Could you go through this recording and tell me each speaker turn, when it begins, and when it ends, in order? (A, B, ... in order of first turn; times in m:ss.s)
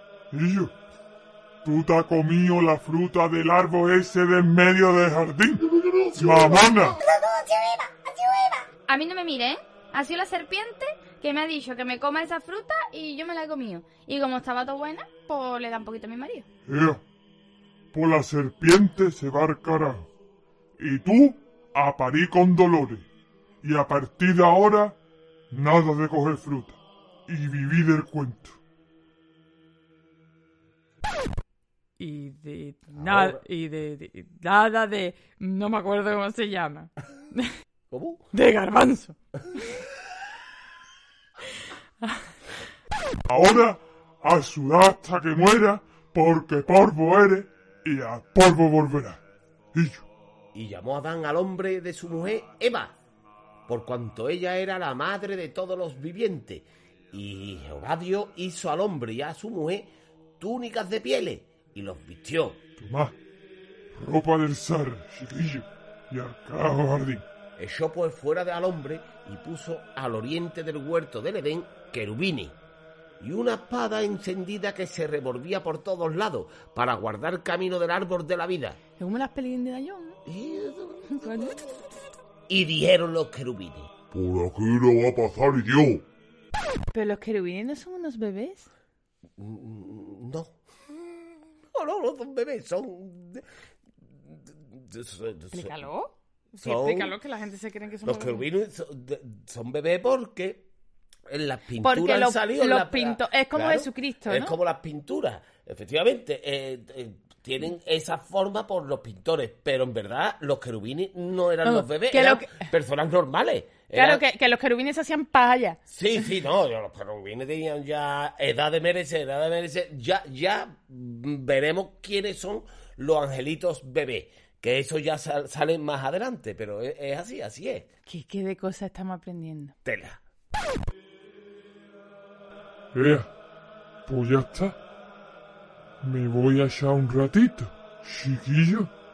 0:00.3-0:00.7 A
0:01.6-0:07.0 A
0:06.3-0:08.7 B
0:08.9-0:16.4 C
0:16.7-0:17.0 A
0:17.9-0:20.1 A
0:20.8-0:23.0 A
0:23.6-0:25.0 A
0:25.5-0:28.6 A
0:32.0-0:37.5 D
0:32.9-0:33.4 E
0:37.9-0:38.3 E
0:38.3-0:39.7 D
0:43.3-0:49.2 A
0:49.7-0:50.0 A
0:50.5-0:53.0 E
0:53.7-1:02.6 E
1:02.8-1:03.2 A
1:04.0-1:07.2 A
1:07.6-1:12.6 E
1:13.2-1:18.8 E
1:19.0-1:20.2 D
1:20.2-1:21.3 E
1:21.1-1:21.8 D
1:22.5-1:23.9 E
1:24.1-1:26.0 A
1:26.9-1:28.7 D
1:29.4-1:30.5 E
1:31.7-1:33.4 E
1:34.1-1:35.9 E
1:35.5-1:38.5 D
1:36.6-1:37.2 E
1:38.0-1:40.7 E
1:41.3-1:54.2 E
1:41.8-1:44.5 D
1:51.6-1:52.7 D
1:53.9-1:55.8 D
1:55.9-2:07.9 E
2:08.0-2:09.7 D
2:09.8-2:10.2 E
2:12.9-2:13.3 A
2:14.0-2:14.8 A
2:16.0-2:18.9 A